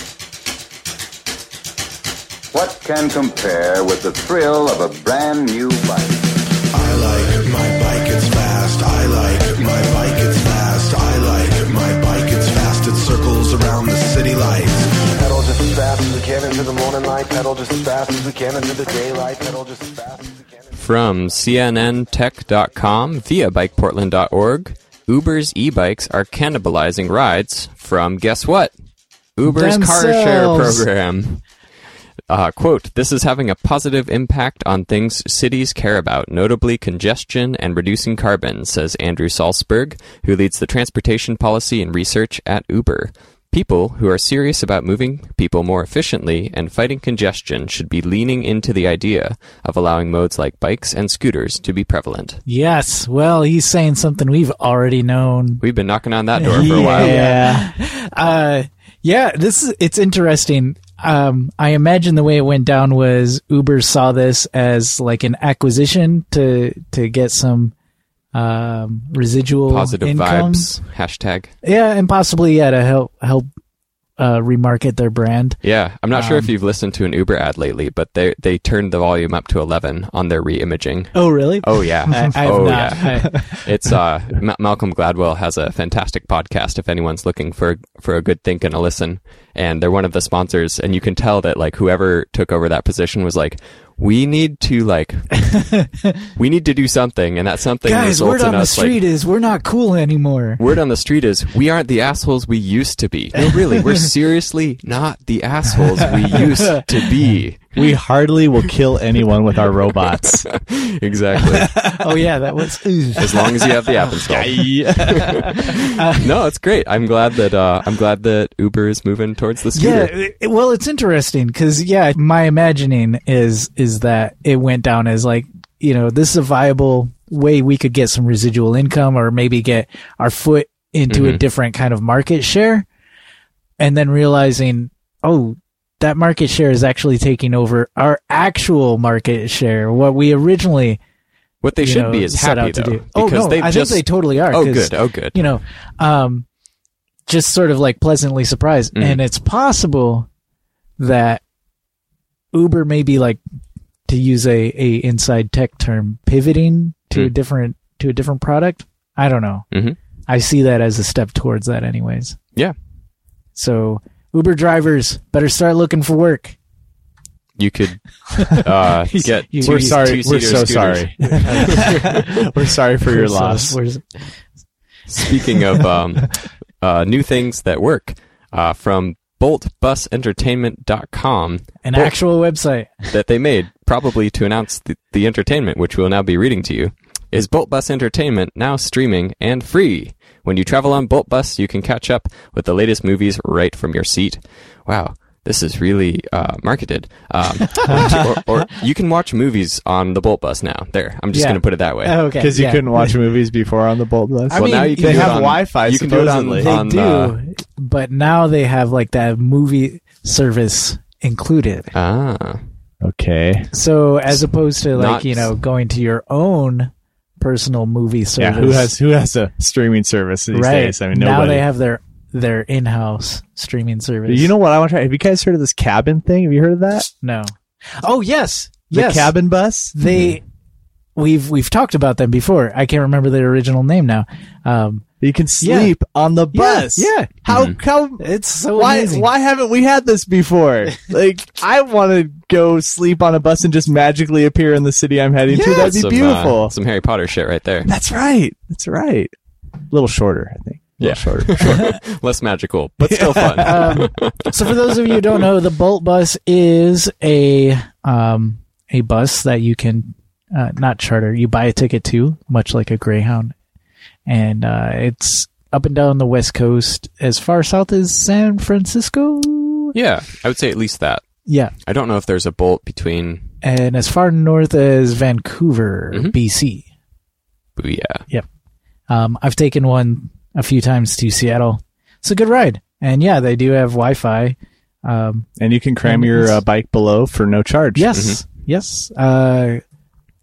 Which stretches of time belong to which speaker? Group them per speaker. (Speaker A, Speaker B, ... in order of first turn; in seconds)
Speaker A: 2.5-6.4
Speaker B: 6.7-15.1
Speaker C: 15.1-20.5
Speaker D: 20.7-28.7, 29.4-31.4, 32.3-52.4, 55.6-57.1, 69.7-71.5, 75.6-95.4, 96.4-99.0, 100.6-107.7, 110.5-111.7, 113.2-120.1, 131.1-131.4, 141.6-145.4, 159.7-160.0, 167.6-172.2, 175.1-182.2, 183.1-202.2, 204.5-207.4, 211.9-212.6, 214.9-215.5, 237.5-237.8, 245.7-247.9, 251.0-255.2, 269.9-271.2, 271.9-273.5, 277.8-278.2, 288.1-288.4
Speaker E: 29.5-30.9, 52.5-55.6, 56.4-67.7, 68.3-70.7, 71.6-73.5, 74.2-75.6, 76.1-76.5, 81.1-83.6, 95.5-96.1, 97.8-100.6, 106.4-106.8, 111.8-113.7, 115.8-116.3, 119.8-132.9, 133.8-141.0, 141.8-146.4, 147.3-150.3, 151.0-151.4, 152.5-153.4, 154.1-159.7, 160.3-162.4, 163.6-166.6, 168.4-172.5, 173.0-174.3, 181.8-183.1, 201.3-203.2, 204.5-205.5, 206.6-211.9, 213.7-218.9, 220.5-224.5, 227.2-229.3, 229.9-230.4, 231.2-235.0, 235.6-235.9, 236.5-237.3, 238.2-239.3, 245.5-245.9, 253.6-263.5, 264.3-269.9, 271.5-271.7, 273.6-276.8, 279.1-285.5, 286.0-286.6, 288.0-289.8
Speaker F: 56.5-57.7, 107.8-110.5, 111.6-112.0, 114.2-115.5, 169.7-173.8, 202.4-206.8, 213.0-213.7, 218.4-221.7, 224.3-227.1, 228.9-230.0, 235.2-246.7, 247.9-249.3, 249.9-252.0, 253.0-254.0, 285.6-288.2